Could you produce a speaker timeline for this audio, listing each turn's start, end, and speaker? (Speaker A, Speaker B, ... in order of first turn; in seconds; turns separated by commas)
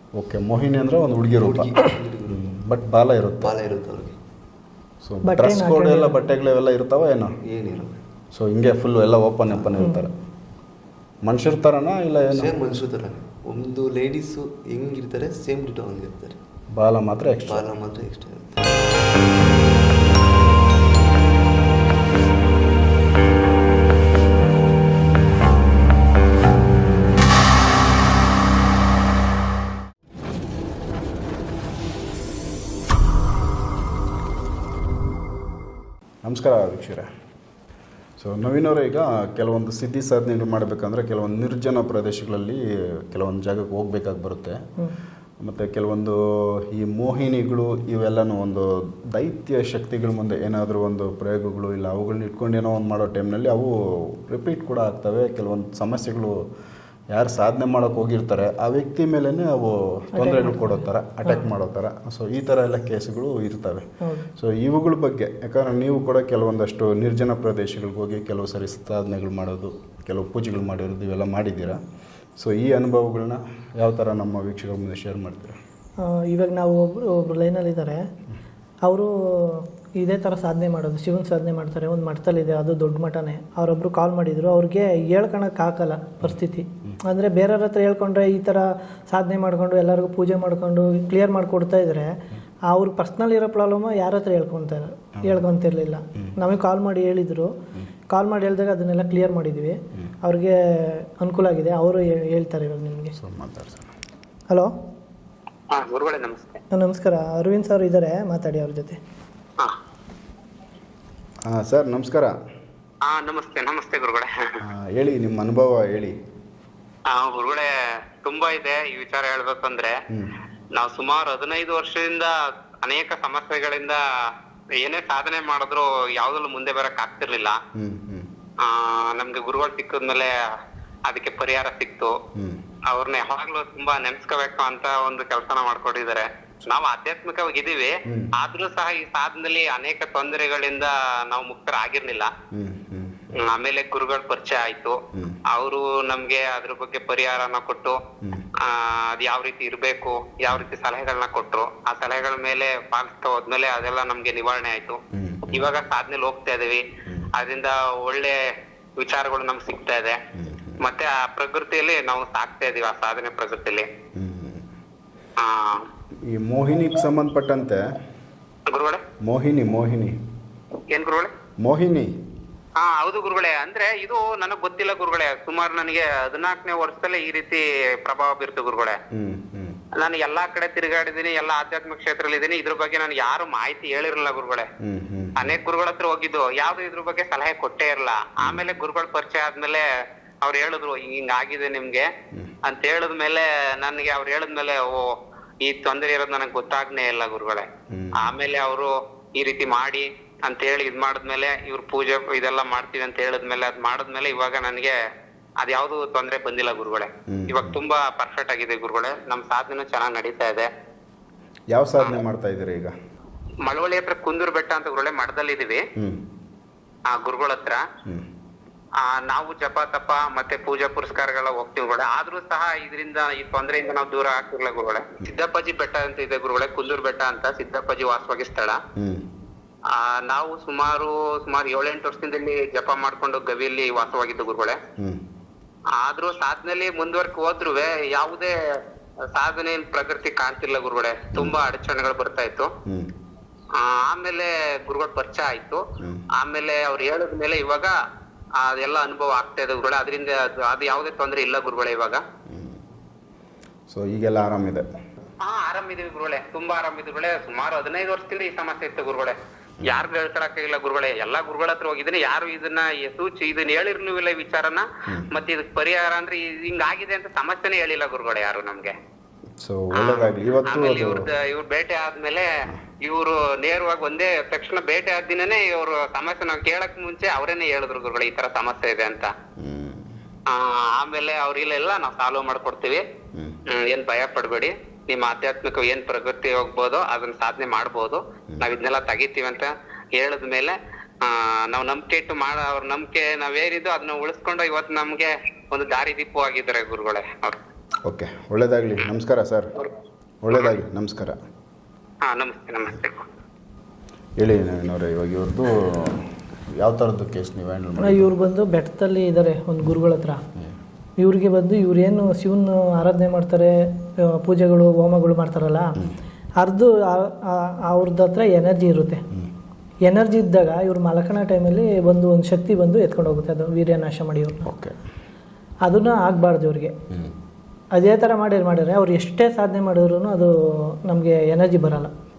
Speaker A: 0.1-1.7, Speaker B: 1.4-2.5, Speaker A: 2.3-3.5, Speaker B: 3.4-4.2, Speaker A: 5.0-7.3, Speaker C: 5.2-6.2, Speaker B: 7.4-8.0, Speaker A: 8.3-10.1, Speaker B: 9.5-9.8, Speaker C: 9.8-10.1, Speaker A: 11.2-12.5, Speaker B: 12.3-16.4, Speaker A: 16.8-17.6, Speaker B: 17.4-18.6, Speaker A: 36.2-37.1, Speaker A: 38.2-44.6, Speaker A: 45.4-56.4, Speaker A: 57.1-63.8, Speaker C: 60.1-61.5, Speaker C: 64.0-64.3, Speaker A: 64.3-71.8, Speaker A: 72.4-75.6, Speaker C: 76.0-78.0, Speaker C: 78.8-92.1, Speaker A: 86.2-87.0, Speaker C: 92.7-97.5, Speaker A: 95.2-95.4, Speaker C: 98.1-103.1, Speaker A: 103.2-103.9, Speaker D: 105.7-106.6, Speaker C: 106.7-109.0, Speaker A: 111.4-112.3, Speaker D: 113.0-114.3, Speaker A: 114.6-116.1, Speaker D: 117.1-119.9, Speaker D: 120.8-122.3, Speaker D: 122.8-124.0, Speaker D: 124.8-127.6, Speaker A: 127.7-128.3, Speaker D: 128.6-130.3, Speaker D: 131.1-132.1, Speaker D: 132.9-142.3, Speaker A: 142.5-143.2, Speaker D: 143.4-145.0, Speaker A: 145.1-145.4, Speaker D: 145.5-148.0, Speaker D: 148.6-158.4, Speaker A: 155.1-155.6, Speaker D: 159.0-160.2, Speaker A: 160.3-160.8, Speaker D: 160.8-163.8, Speaker A: 164.2-164.6, Speaker D: 165.4-165.9, Speaker A: 166.3-167.8, Speaker D: 168.7-169.0, Speaker A: 169.2-170.2, Speaker D: 170.9-171.3, Speaker A: 171.6-172.1, Speaker D: 172.8-178.9, Speaker A: 179.1-179.8, Speaker D: 180.0-184.7, Speaker A: 184.8-185.5, Speaker D: 185.4-189.8, Speaker D: 190.4-192.1, Speaker D: 192.7-195.1, Speaker D: 195.6-197.7, Speaker A: 197.9-198.3, Speaker D: 198.2-204.9, Speaker D: 205.6-210.7, Speaker A: 207.3-207.8, Speaker A: 211.7-212.9, Speaker D: 213.6-215.8, Speaker D: 217.1-217.8, Speaker D: 219.0-228.8, Speaker A: 229.0-229.2, Speaker D: 229.9-234.8, Speaker D: 236.0-238.5, Speaker D: 239.3-242.7, Speaker D: 243.8-245.8, Speaker A: 246.0-246.2, Speaker D: 246.4-247.9, Speaker D: 248.6-252.2, Speaker A: 252.5-252.8, Speaker A: 253.9-254.8, Speaker D: 255.4-268.9, Speaker A: 269.6-271.3, Speaker D: 269.9-279.3, Speaker A: 279.6-280.1, Speaker D: 280.5-283.0, Speaker D: 283.7-297.6, Speaker A: 298.0-299.7, Speaker A: 300.4-301.4, Speaker D: 300.5-300.8, Speaker D: 302.2-303.2, Speaker A: 304.4-308.3, Speaker C: 308.0-310.4, Speaker C: 311.2-316.0, Speaker C: 316.6-319.2, Speaker C: 320.1-324.7, Speaker A: 324.6-324.9, Speaker C: 325.8-326.9, Speaker C: 327.9-330.5, Speaker C: 331.1-332.1